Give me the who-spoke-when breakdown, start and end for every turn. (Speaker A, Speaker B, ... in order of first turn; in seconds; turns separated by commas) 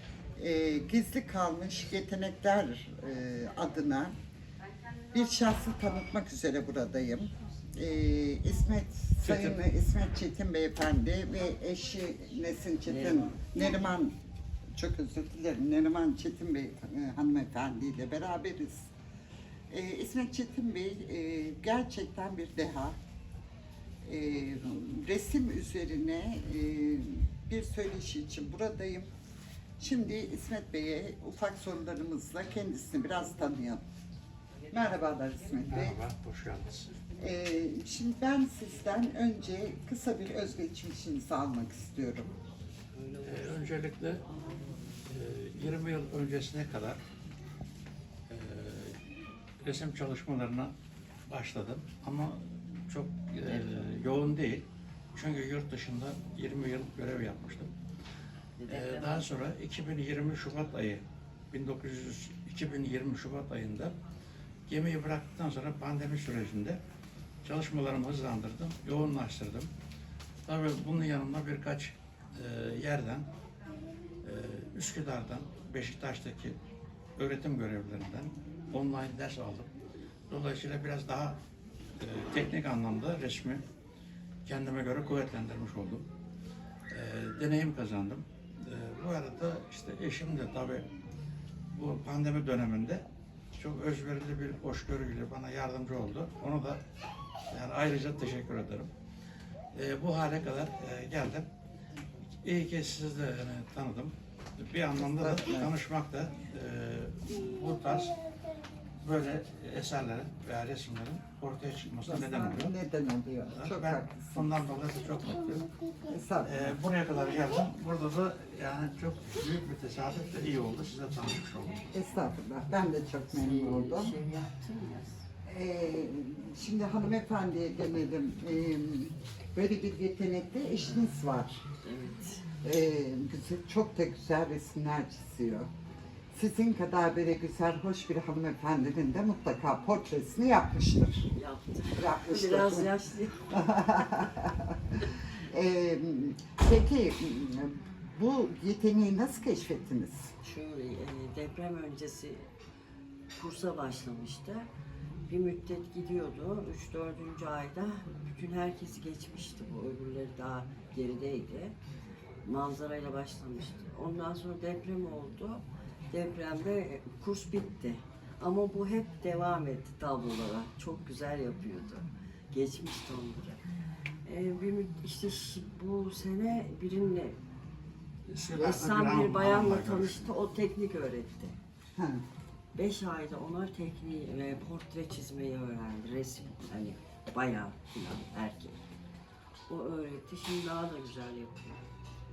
Speaker A: 0.4-4.1, Speaker A: 5.1-14.1, Speaker B: 9.2-9.6, Speaker C: 12.8-13.2, Speaker A: 14.7-18.9, Speaker A: 19.7-23.0, Speaker A: 24.0-29.1, Speaker A: 29.8-33.8, Speaker A: 34.7-36.0, Speaker B: 35.7-36.9, Speaker A: 37.2-42.3, Speaker C: 43.0-43.6, Speaker B: 43.2-44.2, Speaker B: 45.0-47.0, Speaker B: 48.3-49.0, Speaker B: 49.6-50.7, Speaker B: 51.3-57.7, Speaker C: 58.6-59.3, Speaker B: 58.7-63.9, Speaker B: 64.7-66.8, Speaker B: 67.4-69.7, Speaker B: 70.5-73.3, Speaker B: 74.2-76.6, Speaker B: 77.2-79.7, Speaker B: 80.3-81.4, Speaker B: 82.0-83.6, Speaker B: 84.5-86.1, Speaker B: 86.9-90.9, Speaker B: 91.7-96.8, Speaker B: 97.5-98.9, Speaker B: 99.7-101.5, Speaker B: 102.4-108.2, Speaker A: 104.9-105.7, Speaker B: 109.0-112.7, Speaker A: 112.0-114.6, Speaker B: 113.5-115.7, Speaker A: 116.0-116.8, Speaker B: 116.4-121.8, Speaker A: 121.9-124.1, Speaker C: 123.3-125.2, Speaker A: 125.4-131.6, Speaker C: 130.8-131.1, Speaker C: 131.8-132.4, Speaker A: 132.6-135.7, Speaker A: 136.3-141.3, Speaker C: 141.3-143.6, Speaker A: 141.9-142.9, Speaker A: 143.5-144.8, Speaker A: 145.5-150.3, Speaker C: 150.4-152.4, Speaker C: 153.3-154.7, Speaker C: 155.3-161.8, Speaker C: 162.4-173.6, Speaker C: 174.2-177.4, Speaker B: 178.3-180.2, Speaker C: 178.5-181.6, Speaker A: 181.9-182.2, Speaker C: 182.7-188.8, Speaker C: 189.7-191.8